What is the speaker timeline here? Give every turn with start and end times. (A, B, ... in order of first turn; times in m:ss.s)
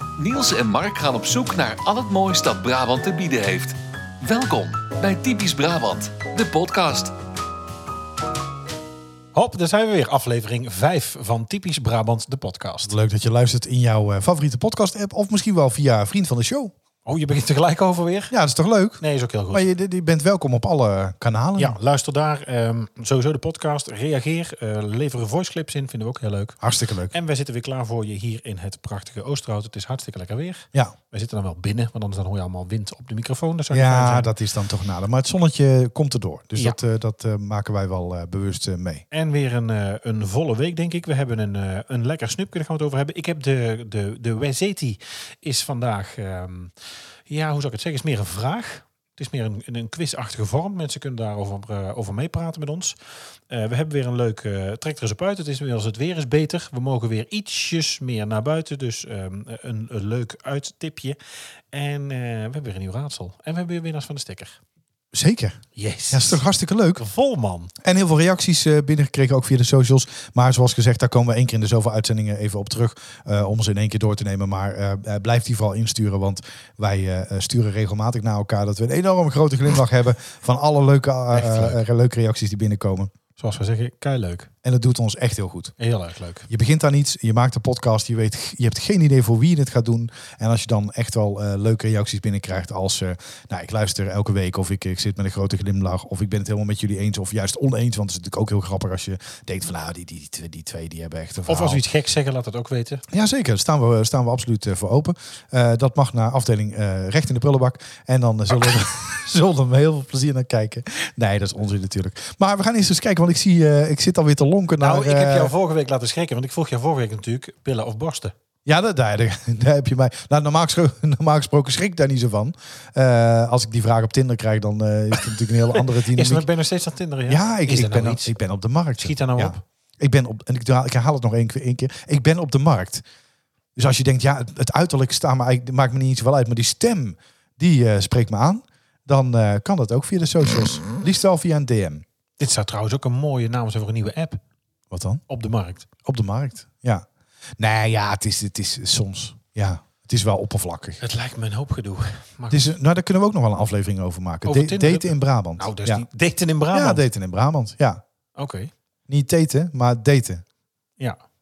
0:00.2-0:07.1 A
0:09.3-0:12.9 B
0:12.8-0:16.7 C
0:17.0-0:18.3 B
0:18.3-0:21.8 C
0:19.0-0:19.7 B
0:21.6-0:26.6 B
0:26.6-0:27.1 C
0:27.1-0:34.3 B
0:33.7-0:39.0 C
0:39.1-0:46.7 B
0:47.3-0:53.0 B
0:53.5-1:01.2 B
1:01.7-1:04.6 B
1:05.1-1:07.0 C
1:05.7-1:06.4 B
1:07.0-1:07.7 B
1:07.8-1:23.1 C
1:21.3-1:21.8 B
1:23.4-1:24.5 B
1:24.6-1:25.7 C
1:25.8-1:26.5 B
1:26.5-1:41.8 C
1:41.5-1:43.0 B
1:43.1-1:55.5 C
1:54.8-1:58.3 B
1:58.6-2:06.4 C
2:05.5-2:08.3 B
2:07.3-2:13.0 C
2:09.0-2:09.6 B
2:13.8-2:22.0 C
2:22.4-2:24.4 B
2:24.9-2:25.2 C
2:25.3-2:25.9 B
2:26.0-2:27.1 C
2:27.6-2:31.0 C
2:31.0-2:32.7 B
2:32.5-2:36.0 C
2:34.4-2:37.0 B
2:36.7-2:38.0 C
2:38.4-2:38.7 B
2:39.1-2:40.4 C